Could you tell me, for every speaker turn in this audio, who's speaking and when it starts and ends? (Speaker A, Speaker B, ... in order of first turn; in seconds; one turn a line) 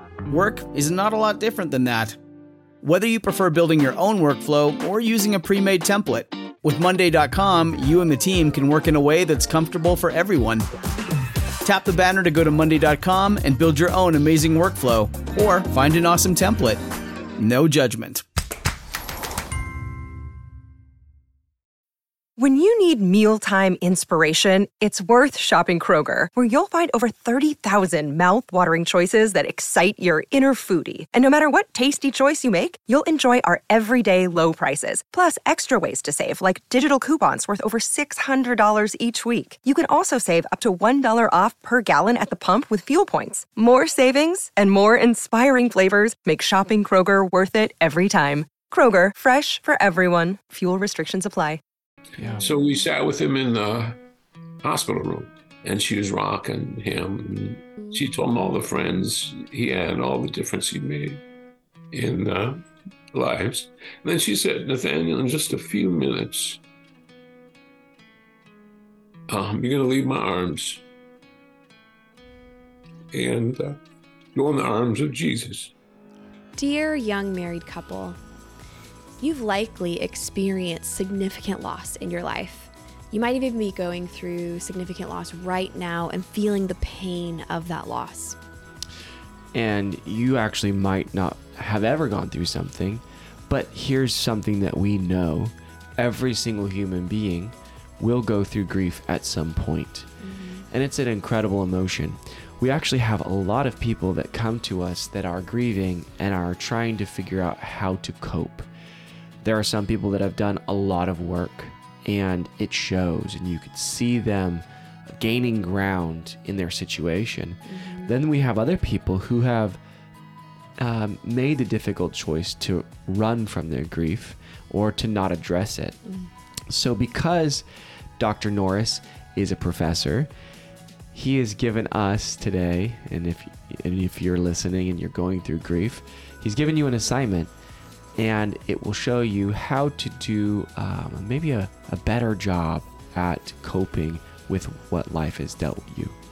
Speaker A: 0.3-2.2
Speaker A: 2.8-10.7
Speaker A: 11.6-16.8
Speaker A: 17.4-18.2
Speaker B: 22.4-51.6
Speaker C: 52.2-52.5
Speaker D: 52.4-54.0
Speaker D: 54.6-61.2
Speaker D: 61.9-66.6
Speaker D: 69.3-70.8
Speaker D: 73.1-73.8
Speaker D: 74.3-75.7
Speaker E: 76.6-78.2
Speaker E: 79.2-88.4
Speaker C: 89.5-100.1
Speaker E: 100.2-100.7
Speaker C: 100.7-108.7
Speaker C: 109.4-119.8
Speaker E: 117.7-118.1
Speaker C: 120.8-126.0
Speaker E: 126.0-126.3
Speaker C: 126.7-127.6
Speaker C: 128.2-130.3
Speaker C: 131.1-137.5
Speaker C: 138.2-146.2